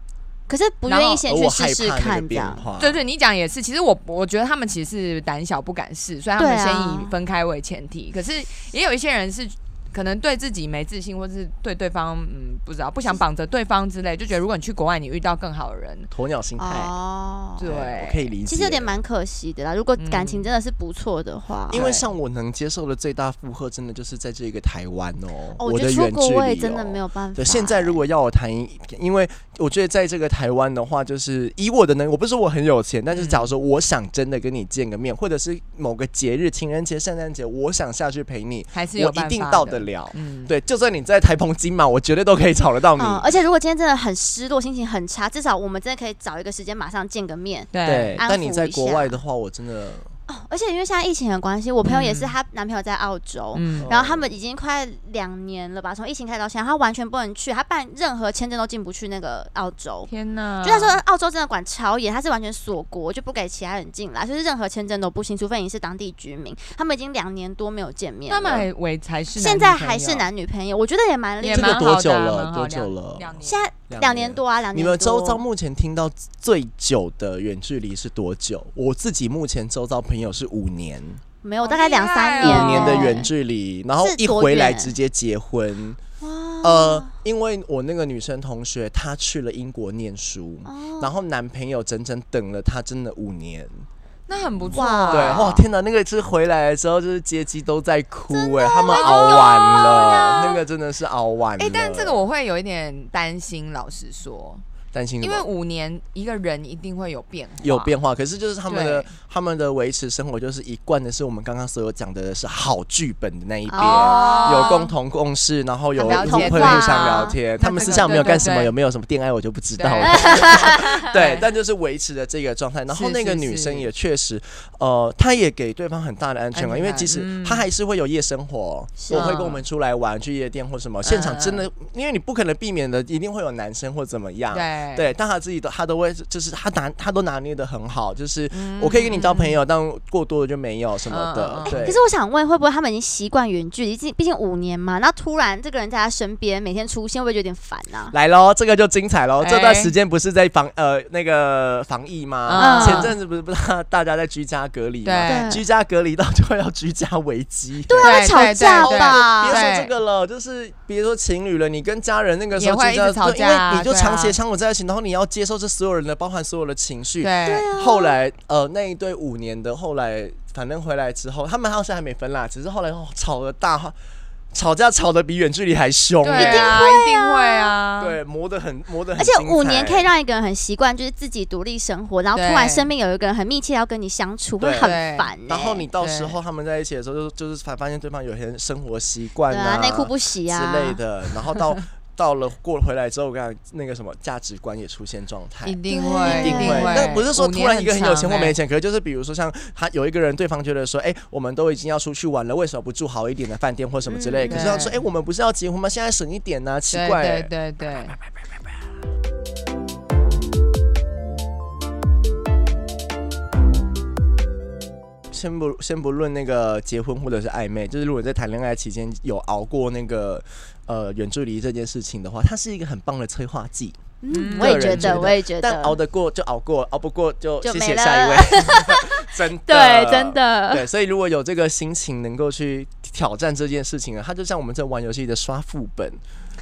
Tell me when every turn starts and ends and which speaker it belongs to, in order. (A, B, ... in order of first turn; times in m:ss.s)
0:00.5-0:02.6 A
0:00.9-0:01.2 B
0:01.2-0:03.0 C
0:02.8-0:16.1 B
0:06.4-0:07.1 A
0:16.1-0:16.9 C
0:16.6-0:17.7 A
0:17.6-0:18.3 B
0:17.6-0:19.0 C
0:18.4-0:21.9 A
0:20.0-0:20.5 B
0:21.7-0:43.3 C
0:21.7-0:22.1 B
0:25.6-0:28.0 A
0:33.1-0:33.5 B
0:38.7-0:40.5 B
0:43.0-0:49.2 A
0:47.7-0:48.2 B
0:47.8-0:50.1 C
0:50.3-1:00.1 A
0:51.8-0:52.3 B
0:53.5-0:53.9 B
0:53.8-0:54.3 C
1:00.1-1:01.0 B
1:00.6-1:08.7 A
1:08.3-1:10.3 B
1:09.4-1:11.9 A
1:11.4-1:13.7 B
1:11.5-1:21.2 C
1:13.4-1:15.4 A
1:21.4-1:23.3 A
1:21.6-1:23.2 B
1:22.4-1:26.0 C
1:24.0-1:24.9 A
1:26.2-1:27.1 A
1:26.6-1:33.9 C
1:30.6-1:31.1 A
1:34.3-1:35.5 B
1:34.7-1:35.7 A
1:34.7-1:42.2 C
1:38.3-1:40.5 A
1:38.9-1:40.6 B
1:41.6-1:44.6 B
1:44.9-1:45.5 C
1:45.2-1:47.9 B
1:47.6-2:22.0 C
1:48.7-1:49.1 B
1:53.7-1:54.9 A
1:53.8-1:54.9 B
1:56.0-1:58.5 A
1:56.0-1:58.7 B
1:59.8-2:01.4 B
2:00.0-2:01.0 A
2:02.9-2:03.9 B
2:06.5-2:07.6 B
2:09.0-2:09.3 A
2:09.1-2:09.6 B
2:11.0-2:11.6 B
2:14.5-2:15.1 B
2:18.5-2:19.5 B
2:21.1-2:21.9 B
2:21.6-2:28.1 A
2:28.1-2:54.0 C
2:29.4-2:29.9 B
2:32.5-2:33.1 B
2:32.6-2:33.1 A
2:35.0-2:35.6 B
2:35.2-2:35.6 A
2:37.9-2:39.6 A
2:38.0-2:39.9 B
2:42.6-2:44.4 B
2:47.2-2:47.7 B
2:47.4-2:48.2 A
2:54.5-2:56.8 C
2:56.2-2:58.2 B
2:56.3-2:57.8 A
2:58.0-3:00.1 C
2:59.2-3:05.8 A
3:02.3-3:02.9 B
3:04.6-3:05.0 C
3:04.8-3:05.3 B
3:05.5-3:27.5 C
3:06.0-3:06.3 B
3:09.5-3:11.0 A
3:15.6-3:18.6 B
3:15.9-3:17.2 A
3:24.1-3:24.8 A
3:24.5-3:25.0 B
3:26.9-3:28.2 B
3:35.3-3:56.2 C
3:44.2-3:46.0 A
3:44.3-3:45.3 B
3:47.6-3:50.8 A